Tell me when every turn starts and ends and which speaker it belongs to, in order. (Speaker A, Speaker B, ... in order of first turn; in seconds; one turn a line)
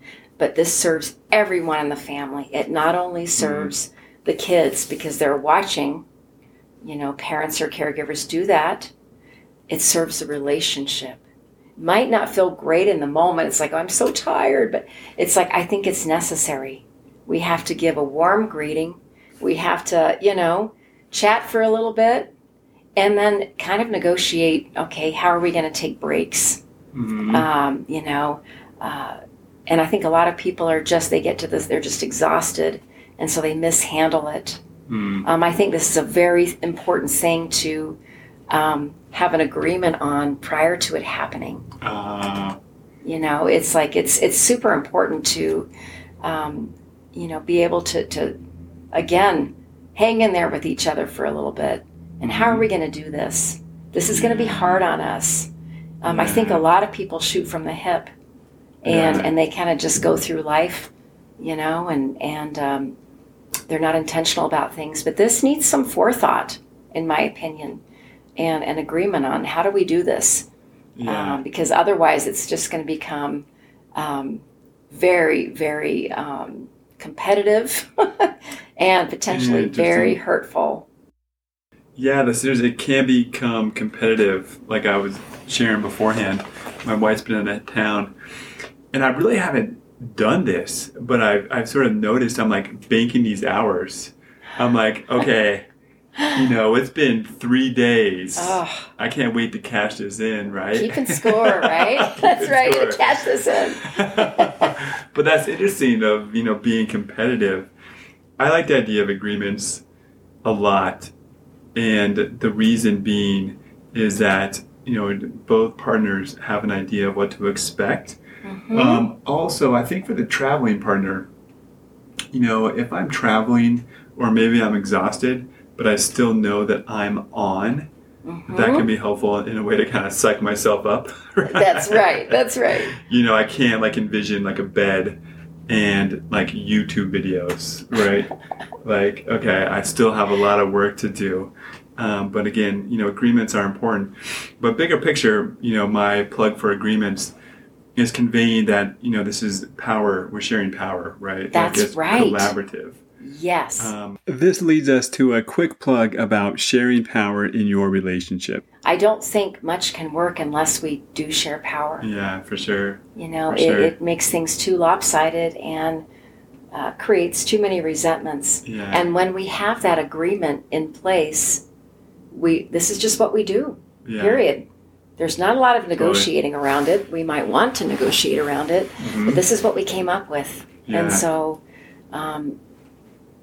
Speaker A: 0.4-6.0
Speaker B: 3.4-3.7
Speaker A: 6.8-8.9
Speaker A: 9.7-11.2
Speaker A: 11.8-22.3
Speaker A: 22.9-26.6
Speaker B: 26.9-27.5
Speaker A: 27.3-34.6
Speaker B: 34.9-35.3
Speaker A: 35.2-38.0
Speaker A: 38.5-41.7
Speaker B: 41.8-42.6
Speaker A: 43.0-45.7
Speaker A: 46.2-48.4
Speaker A: 48.9-55.5
Speaker B: 52.2-52.7
Speaker B: 54.1-54.9
Speaker A: 56.0-58.1
Speaker B: 56.1-56.7
Speaker B: 58.8-59.3
Speaker A: 58.8-63.0
Speaker A: 63.7-67.8
Speaker A: 68.4-70.5
Speaker B: 71.0-71.4
Speaker A: 71.0-80.8
Speaker B: 79.3-80.2
Speaker B: 82.0-88.1
Speaker B: 88.9-95.7
Speaker B: 96.3-107.7
Speaker A: 98.3-98.9
Speaker A: 100.7-104.7
Speaker B: 108.4-109.8
Speaker B: 110.4-111.1
Speaker B: 111.7-118.2
Speaker A: 118.4-119.0
Speaker B: 118.7-121.3
Speaker B: 122.3-127.9
Speaker A: 128.2-128.9
Speaker B: 128.5-132.4
Speaker A: 131.4-132.9
Speaker B: 132.9-138.3
Speaker B: 138.8-147.3
Speaker B: 147.9-153.0
Speaker A: 151.5-152.5
Speaker A: 153.2-153.9
Speaker B: 153.8-158.6
Speaker A: 158.8-162.1
Speaker B: 162.0-163.9
Speaker A: 163.2-166.0
Speaker A: 166.7-171.6
Speaker B: 168.6-169.0
Speaker A: 172.3-182.6
Speaker B: 174.0-174.5
Speaker B: 176.0-176.3
Speaker B: 179.0-179.4
Speaker B: 180.8-181.2